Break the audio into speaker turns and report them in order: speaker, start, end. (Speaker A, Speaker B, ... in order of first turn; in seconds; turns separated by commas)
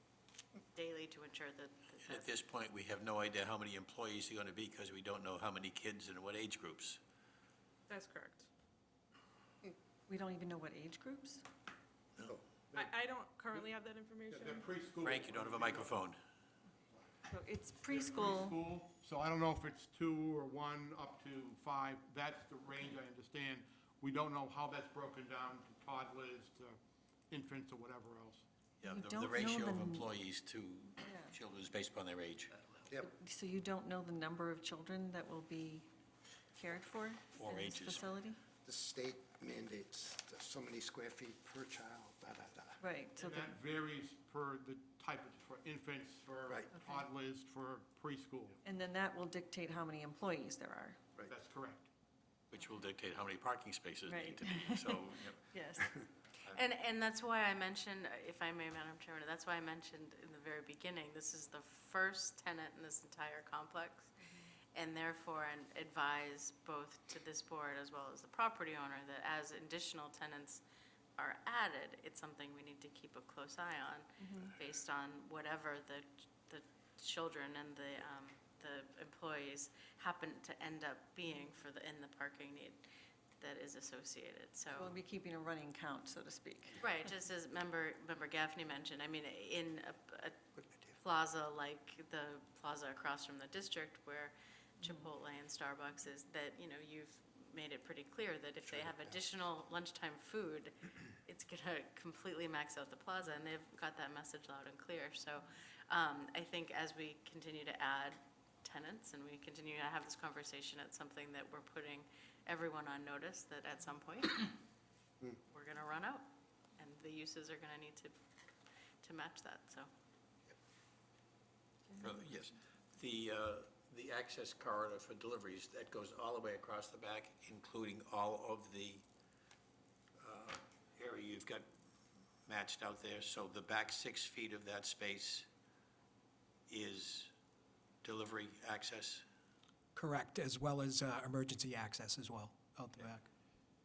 Speaker A: 0.7-2.3, Speaker B: 2.0-7.0, Speaker C: 7.9-8.5, Speaker D: 10.1-11.4, Speaker B: 12.2-12.4, Speaker C: 12.8-14.7, Speaker E: 14.3-16.0, Speaker B: 15.0-16.2, Speaker E: 16.9-17.2, Speaker D: 17.3-18.6, Speaker E: 17.9-26.8, Speaker E: 27.3-28.4, Speaker B: 28.8-32.5, Speaker D: 28.9-30.0, Speaker D: 31.0-31.3, Speaker D: 33.0-35.9, Speaker D: 36.5-38.4, Speaker B: 37.4-38.2, Speaker F: 38.6-42.8, Speaker D: 42.8-43.5, Speaker E: 43.2-48.6, Speaker D: 48.6-51.0, Speaker E: 51.3-51.9, Speaker B: 52.5-55.4, Speaker D: 54.1-56.0, Speaker A: 56.5-64.2, Speaker A: 64.7-70.6, Speaker A: 71.2-82.9, Speaker D: 74.2-74.5, Speaker A: 83.4-85.0, Speaker D: 84.7-86.9, Speaker A: 86.8-90.4, Speaker F: 90.6-91.0, Speaker A: 91.0-114.6, Speaker A: 115.5-116.2, Speaker A: 116.8-118.1, Speaker A: 119.0-119.9, Speaker B: 122.0-129.1, Speaker B: 130.2-131.7, Speaker B: 132.5-135.5, Speaker B: 136.7-137.3, Speaker B: 138.0-139.2, Speaker G: 139.9-143.3